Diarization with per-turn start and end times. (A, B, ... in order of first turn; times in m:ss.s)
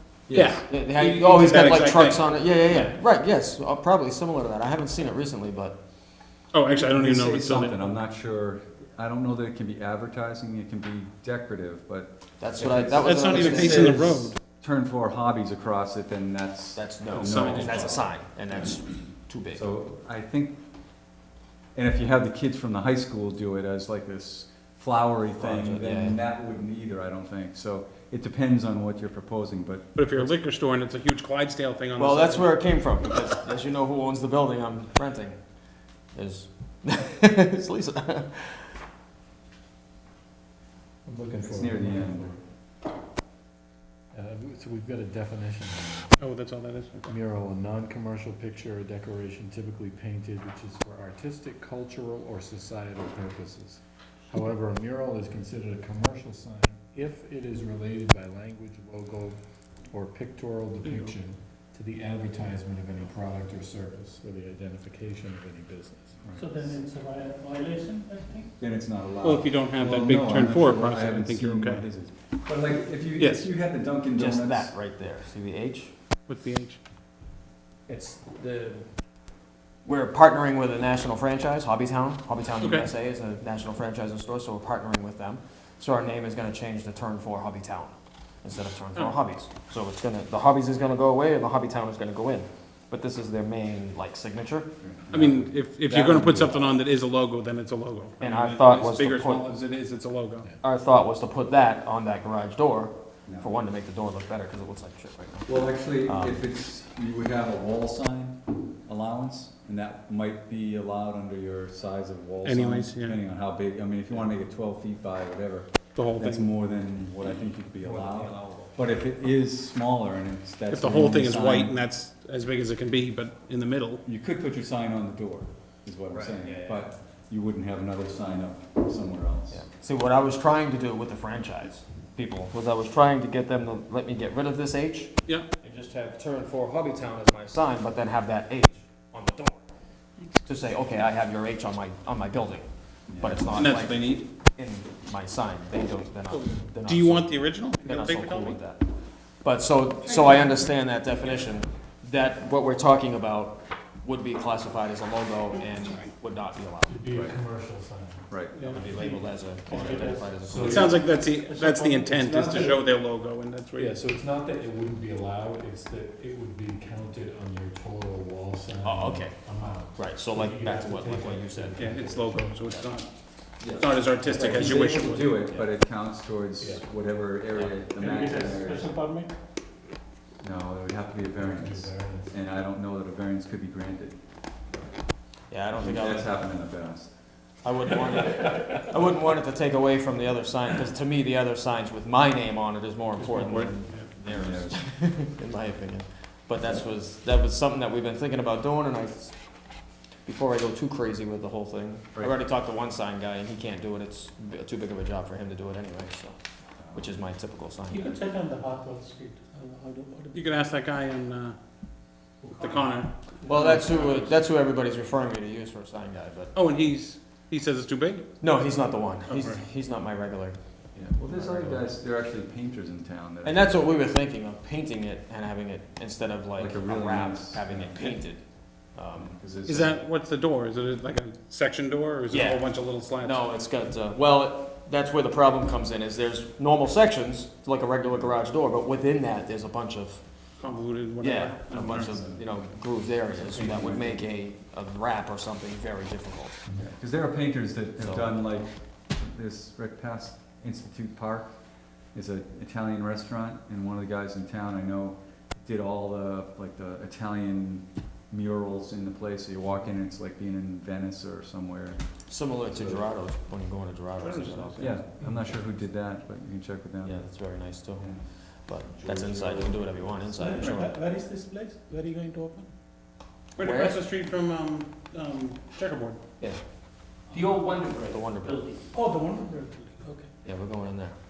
0:00.3-0:00.6 A
0:00.3-0:02.9 B
0:00.7-0:05.8 C
0:06.5-0:07.8 B
0:06.7-0:18.1 A
0:12.4-0:14.0 C
0:13.0-0:14.4 B
0:16.7-0:19.6 C
0:17.1-0:18.0 B
0:19.5-0:20.6 A
0:21.7-0:30.3 A
0:25.4-0:26.2 C
0:29.9-0:32.5 B
0:32.0-0:35.4 C
0:36.1-0:38.7 C
0:41.0-0:42.4 D
0:41.4-0:42.3 A
0:44.1-0:46.1 D
0:46.2-0:47.0 B
0:47.0-0:59.4 D
0:59.9-1:06.2 D
1:00.8-1:01.1 B
1:06.4-1:08.5 E
1:08.6-1:14.7 A
1:09.2-1:11.9 B
1:13.2-1:13.5 B
1:14.1-1:15.9 C
1:16.3-1:16.8 B
1:17.9-1:18.8 C
1:19.8-1:34.7 C
1:22.6-1:22.8 B
1:34.8-1:36.6 A
1:35.1-1:40.5 B
1:38.2-1:39.5 C
1:40.6-1:46.4 C
1:43.2-1:43.5 A
1:45.5-2:01.7 A
1:52.4-1:53.2 B
1:55.9-1:56.5 B
1:57.8-1:58.8 C
2:00.7-2:04.0 B
2:04.0-2:09.6 A
2:06.1-2:06.8 C
2:09.5-2:19.6 C
2:20.4-2:27.3 C
2:23.1-2:23.7 A
2:23.5-2:24.2 B
2:26.3-2:28.6 B
2:27.8-2:28.8 C
2:29.4-2:36.9 C
2:30.2-2:30.6 E
2:35.8-2:36.1 B
2:36.8-2:39.2 D
2:38.3-2:38.6 A
2:38.5-2:38.8 B
2:38.7-2:41.0 C
2:38.9-2:40.3 E
2:39.7-2:41.2 D
2:40.6-2:43.9 B
2:41.3-2:42.8 E
2:42.4-2:42.7 D
2:43.8-2:52.5 D
2:48.8-2:52.0 C
2:51.8-2:55.4 B
2:53.6-2:58.9 A
2:54.3-2:55.6 C
2:54.3-2:54.7 D
2:58.0-2:59.3 E
3:00.4-3:04.2 A
3:01.3-3:02.3 D
3:05.5-3:06.4 C
3:05.7-3:07.1 A
3:07.6-3:19.4 C
3:13.3-3:14.1 B
3:14.2-3:14.8 A
3:20.2-3:26.4 C
3:26.8-3:27.1 A
3:26.9-3:28.2 C
3:27.9-3:30.4 E
3:30.3-3:31.6 B
3:32.4-3:32.9 E
3:32.6-3:34.3 B
3:33.4-3:36.5 C
3:36.5-3:38.3 B
3:38.4-3:41.9 C
3:39.3-3:39.6 B
3:40.9-3:43.8 A
3:43.4-3:49.3 C
3:46.6-3:48.2 A
3:49.1-3:50.0 A
3:49.6-3:53.4 B
3:52.3-4:00.2 C
4:00.6-4:02.2 B
4:01.2-4:06.7 C
4:01.9-4:02.4 A
4:03.3-4:04.2 A
4:06.8-4:11.6 A
4:08.0-4:08.4 C
4:12.1-4:22.0 A
4:22.3-4:25.0 C
4:22.7-4:23.0 A
4:24.2-4:25.0 B
4:24.8-4:27.4 A
4:27.0-4:30.9 C
4:28.0-4:30.4 A
4:30.4-4:32.7 E
4:33.6-4:36.2 B
4:33.6-4:34.0 C
4:37.3-4:40.3 E
4:37.9-4:38.7 C
4:40.4-4:41.1 C